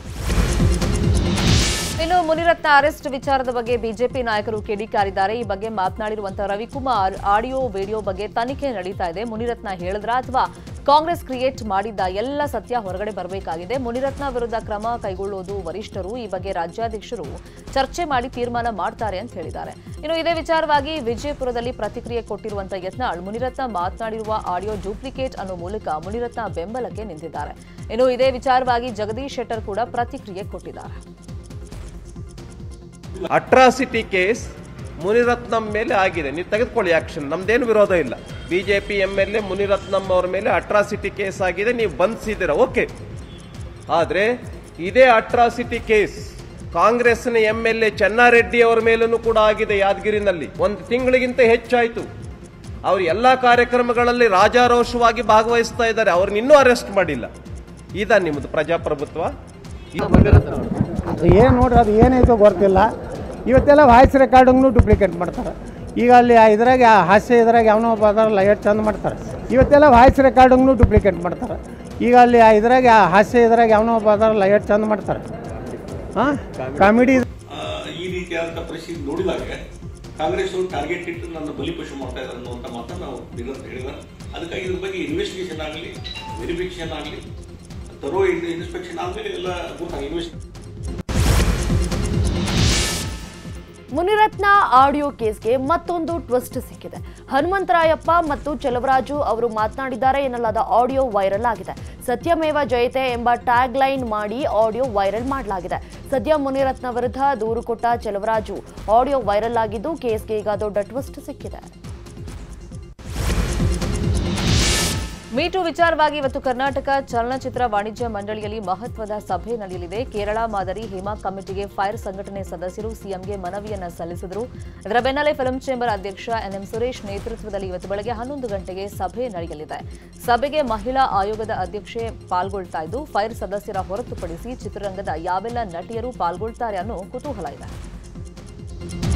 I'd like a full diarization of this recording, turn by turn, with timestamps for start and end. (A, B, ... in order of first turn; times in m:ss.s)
0:02.0-0:31.0 A
0:33.3-0:42.9 B
0:43.9-0:46.2 B
0:46.7-0:52.1 B
0:52.8-0:57.3 B
0:58.0-0:59.3 B
0:59.9-1:00.2 B
1:01.2-1:02.9 C
1:03.5-1:15.2 C
1:16.2-1:17.2 C
1:17.5-1:19.5 D
1:20.2-1:25.9 D
1:26.4-1:27.2 D
1:28.0-1:30.3 D
1:33.9-1:51.7 E
1:55.4-2:17.7 A